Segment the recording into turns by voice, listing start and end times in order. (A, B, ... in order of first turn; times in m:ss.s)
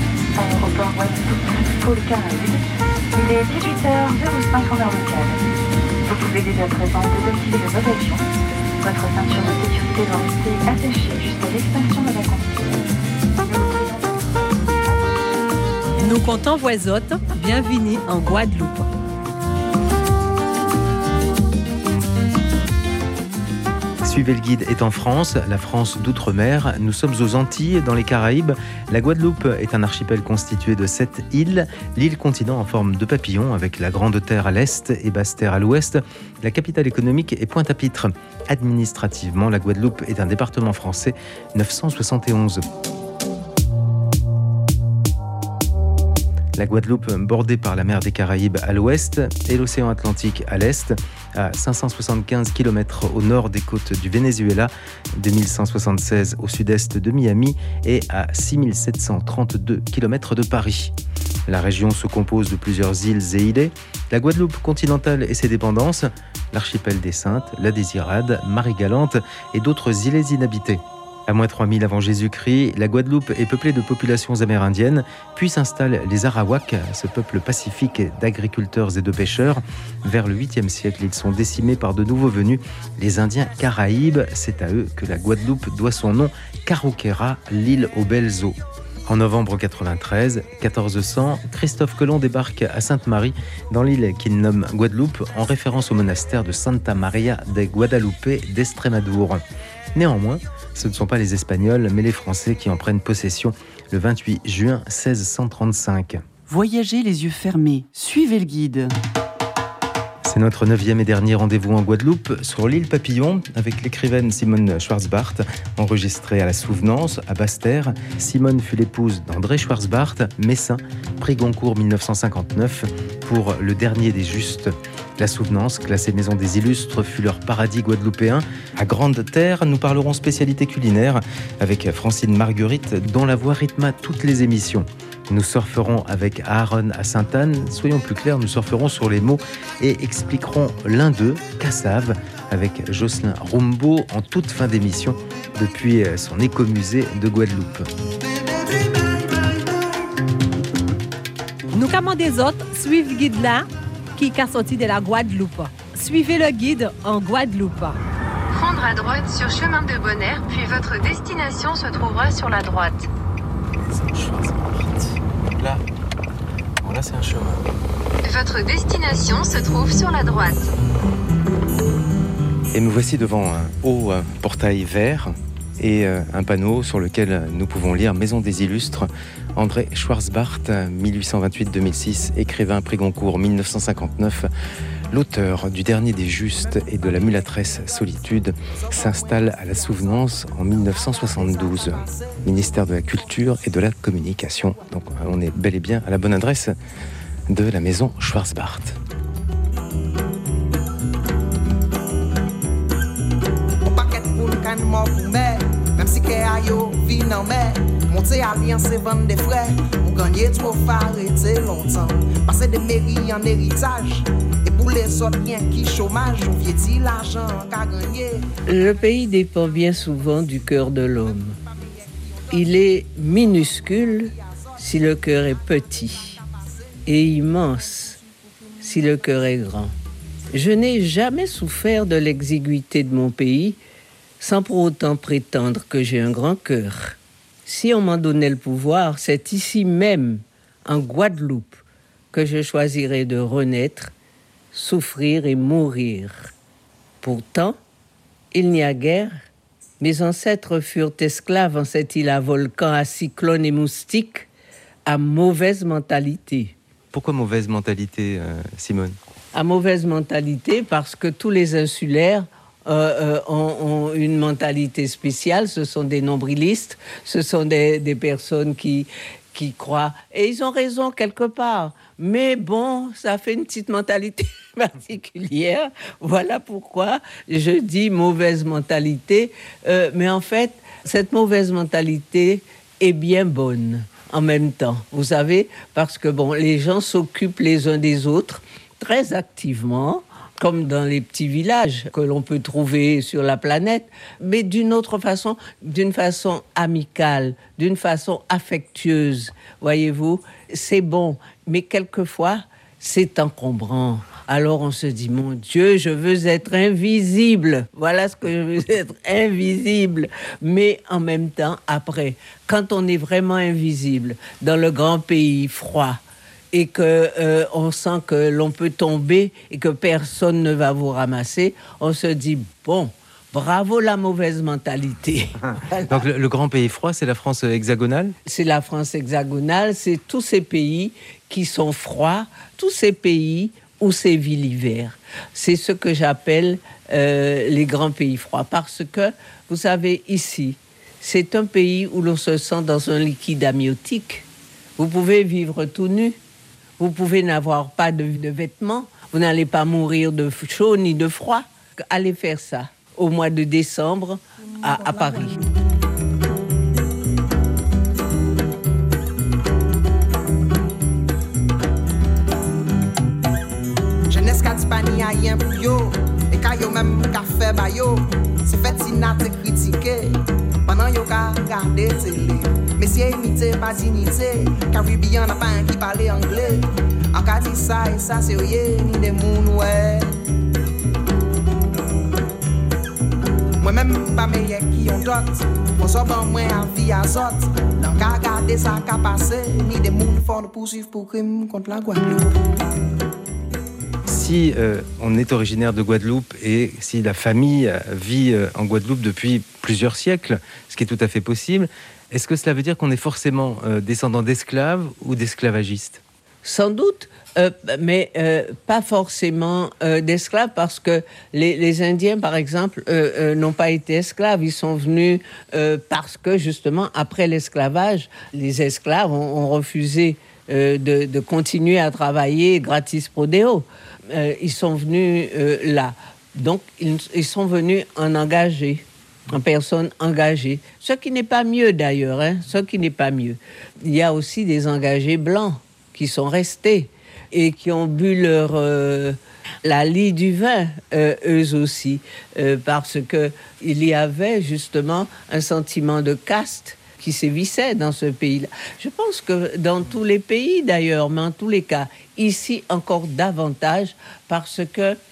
0:00.4-0:02.6 A
0:03.1-0:05.4 A
0:06.0-0:08.3 A
0:08.8-0:12.8 A
0:13.4-0:14.3 A
0:16.0-0:18.9 B
0:24.0-0:42.6 C
0:46.6-1:00.9 C
1:01.5-1:39.4 C
1:39.9-1:46.2 C
1:46.5-1:49.0 D
1:50.2-2:27.9 C
2:31.7-2:33.6 B
2:34.2-2:38.0 B
2:38.5-2:43.1 E
2:43.9-2:45.8 C
2:46.8-2:47.7 C
2:48.2-2:50.7 E
2:52.7-3:04.5 C
3:05.1-3:16.8 C
3:08.8-3:10.0 F
3:10.9-3:12.4 F
3:17.5-3:19.0 C
3:23.8-3:38.6 F
3:38.6-3:41.6 G
3:42.5-3:46.4 G
3:47.1-3:48.2 G
3:48.8-3:49.9 G
3:50.5-3:53.8 G
3:54.4-4:04.1 G
4:04.7-4:06.5 G
4:07.2-4:07.8 G
4:08.5-4:09.4 G
4:10.0-4:14.5 G
4:15.1-4:16.8 G
4:17.1-4:19.2 C
4:19.5-5:16.2 G
5:16.7-5:26.2 G
5:26.1-5:28.4 C
5:28.4-5:44.4 G
5:45.0-5:46.4 G
5:47.0-5:55.6 G
6:04.3-6:20.3 F
6:23.8-6:32.5 F
6:34.3-6:46.2 C
6:46.6-7:35.2 G